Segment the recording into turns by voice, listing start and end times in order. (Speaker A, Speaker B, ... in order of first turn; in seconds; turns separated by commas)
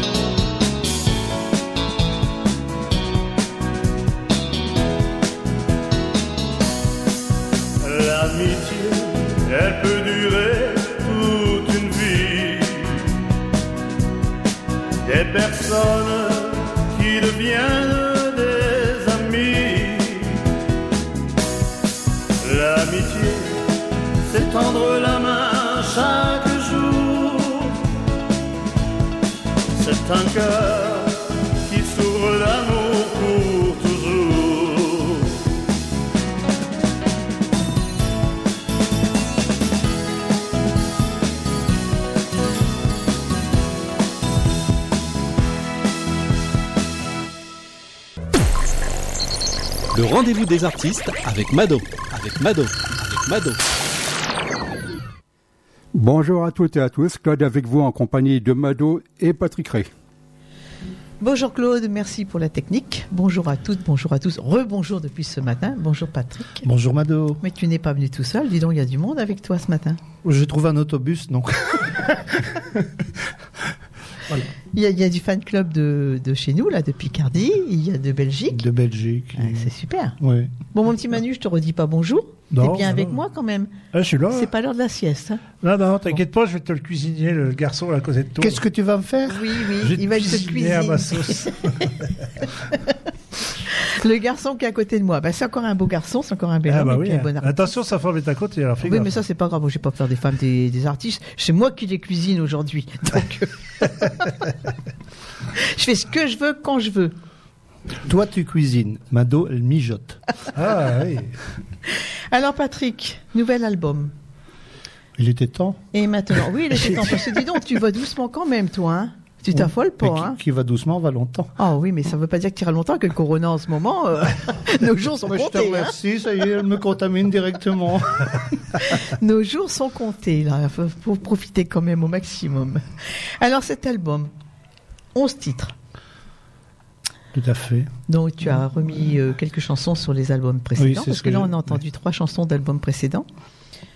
Speaker A: 7.8-13.2, Speaker A: 15.1-20.4, Speaker A: 22.4-23.6, Speaker A: 24.3-27.8, Speaker A: 29.8-35.4, Speaker B: 49.9-53.6, Speaker C: 56.0-59.9, Speaker D: 61.2-66.7, Speaker E: 66.6-67.4, Speaker D: 67.4-70.0, Speaker E: 70.2-73.1, Speaker D: 74.7-78.6, Speaker E: 78.5-80.5, Speaker D: 79.4-80.2, Speaker D: 80.7-83.7, Speaker F: 82.5-83.2, Speaker F: 83.9-84.5, Speaker D: 84.3-85.4, Speaker F: 85.6-88.6, Speaker E: 88.4-89.7, Speaker D: 89.3-91.5, Speaker F: 89.8-92.1, Speaker D: 93.7-97.8, Speaker F: 96.7-99.2, Speaker D: 98.8-104.2, Speaker D: 105.5-107.2, Speaker E: 108.0-110.2, Speaker F: 110.5-111.4, Speaker D: 111.9-114.1, Speaker E: 115.2-115.8, Speaker D: 115.9-120.4, Speaker E: 119.5-121.5, Speaker D: 121.6-125.9, Speaker E: 125.2-128.4, Speaker D: 128.8-134.3, Speaker D: 135.2-135.7, Speaker E: 137.3-137.9, Speaker D: 138.1-143.3, Speaker E: 140.8-141.7